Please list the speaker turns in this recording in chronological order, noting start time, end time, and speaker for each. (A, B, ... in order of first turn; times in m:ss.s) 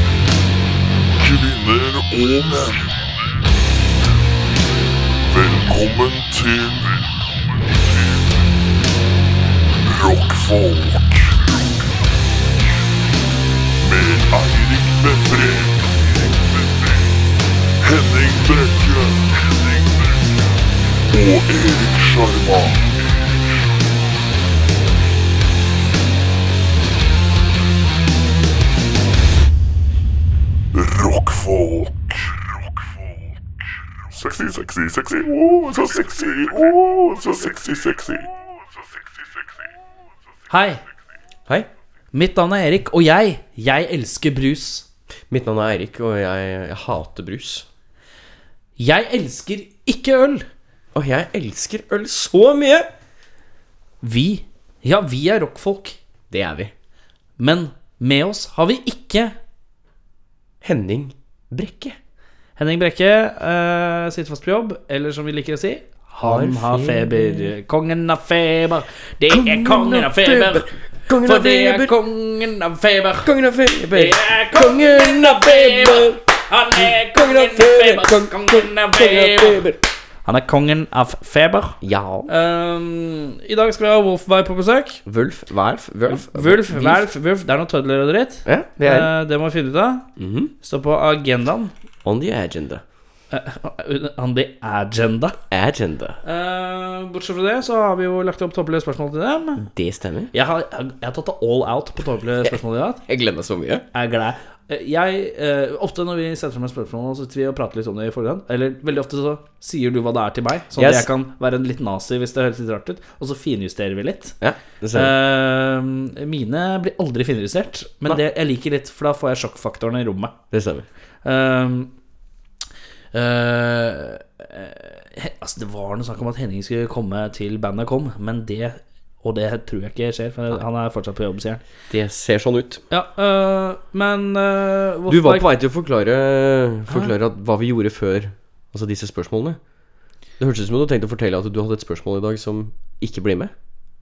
0:01.2-0:03.0 A
0:05.3-0:08.3 A
0:09.8-0:11.5 A
0:13.8-0:17.2 A
0:17.8-0:20.5 A
0:21.1-0:23.7 A
0:30.7-0:32.7 A
0:34.1-0:38.3 A
0:40.5-0:40.8 B
0:42.1-0:44.9 B
0:45.3-0:47.7 C
0:48.8-0:50.5 B
0:50.9-0:52.9 C
0:54.0-0:56.0 B
0:56.3-0:56.7 C
0:57.4-0:59.4 B
1:00.6-1:02.0 C
1:02.6-1:13.3 B
1:06.2-1:07.5 C
1:09.3-1:12.0 C
1:13.2-1:16.2 C
1:13.9-1:19.7 B
1:16.8-1:19.8 C
1:20.2-1:25.0 B
1:21.8-1:22.3 C
1:25.1-1:27.1 C
1:26.1-1:30.1 B
1:28.5-1:29.1 C
1:30.2-1:30.5 C
1:30.6-1:31.7 B
1:32.0-1:32.8 C
1:33.3-1:35.4 B
1:35.5-1:36.2 C
1:36.2-1:39.7 B
1:39.6-1:40.3 C
1:40.3-1:43.0 B
1:42.4-1:43.8 C
1:43.9-1:54.4 B
1:50.8-1:51.1 C
1:54.4-1:55.1 C
1:54.9-2:00.3 B
2:00.5-2:00.9 C
2:01.2-2:01.9 B
2:03.1-2:11.6 B
2:11.9-2:12.8 C
2:12.9-2:15.5 B
2:15.1-2:19.6 C
2:20.4-2:23.5 C